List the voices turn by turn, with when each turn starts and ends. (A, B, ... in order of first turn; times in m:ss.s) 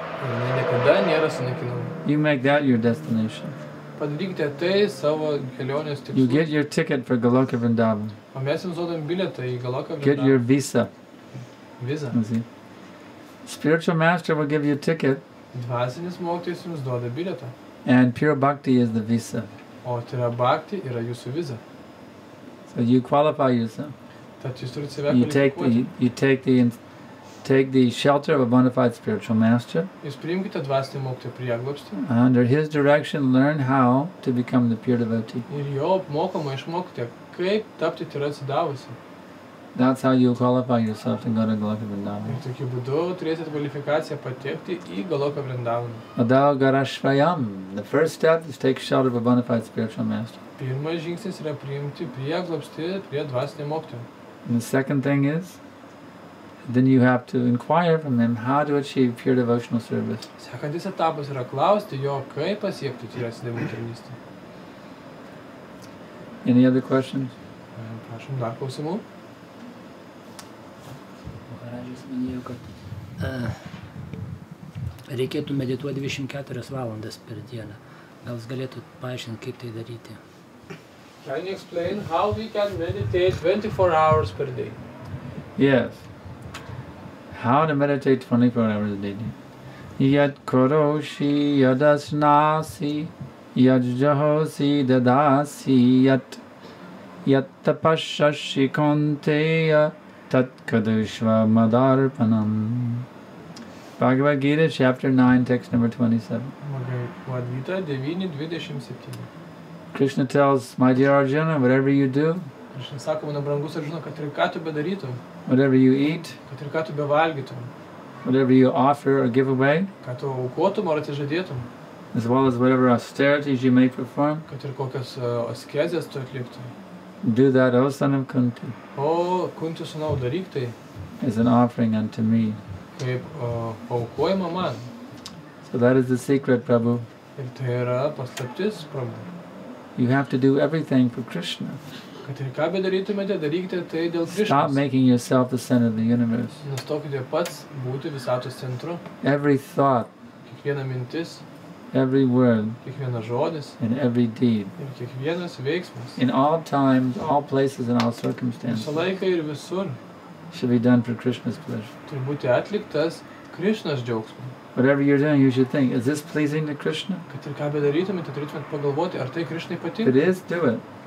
0:00.2-0:02.0 A
0:02.0-0:03.6 B
0:04.0-0:06.5 A
0:06.1-0:08.2 B
0:08.3-0:10.4 A
0:10.0-0:10.9 B
0:11.3-0:12.2 A
0:12.1-0:12.4 B
0:13.4-0:15.2 B
0:15.5-0:17.5 A
0:17.8-0:19.5 B
0:19.8-0:21.6 A
0:22.7-0:23.9 B
0:24.4-0:25.8 A
0:25.1-0:26.8 B
0:27.4-0:29.9 B
0:30.0-0:32.0 A
0:32.0-0:35.5 B
0:35.5-0:39.0 A
0:39.7-0:42.4 B
0:42.3-0:46.0 A
0:46.2-0:50.4 B
0:50.6-0:54.1 A
0:54.4-0:55.6 B
0:56.6-1:00.3 B
1:00.4-1:04.2 A
1:06.4-1:07.3 B
1:07.8-1:09.0 A
1:11.5-1:13.8 C
1:15.1-1:20.2 C
1:21.2-1:24.8 A
1:25.6-1:26.1 B
1:27.3-1:29.4 B
1:30.0-1:36.4 B
1:37.2-1:43.1 B
1:44.0-1:46.5 B
1:46.6-1:49.3 A
1:49.9-1:52.5 B
1:52.7-1:55.2 A
1:55.5-1:56.4 B
1:56.5-1:57.7 A
1:58.2-1:59.9 B
2:00.0-2:01.7 A
2:02.1-2:04.4 B
2:04.5-2:06.7 A
2:07.2-2:08.8 B
2:09.0-2:10.8 A
2:11.2-2:12.6 B
2:13.0-2:14.9 A
2:15.6-2:17.1 B
2:17.4-2:19.3 A
2:20.0-2:21.8 B
2:22.2-2:24.8 A
2:24.3-2:26.6 B
2:26.6-2:29.0 A
2:29.2-2:30.1 B
2:30.5-2:31.4 A
2:31.9-2:32.8 B
2:32.8-2:33.8 A
2:33.8-2:34.7 B
2:34.8-2:36.2 A
2:36.2-2:39.0 B
2:38.7-2:40.0 A
2:40.5-2:41.9 B
2:42.1-2:44.5 A
2:44.7-2:47.2 B
2:47.3-2:50.2 A
2:50.0-2:50.8 B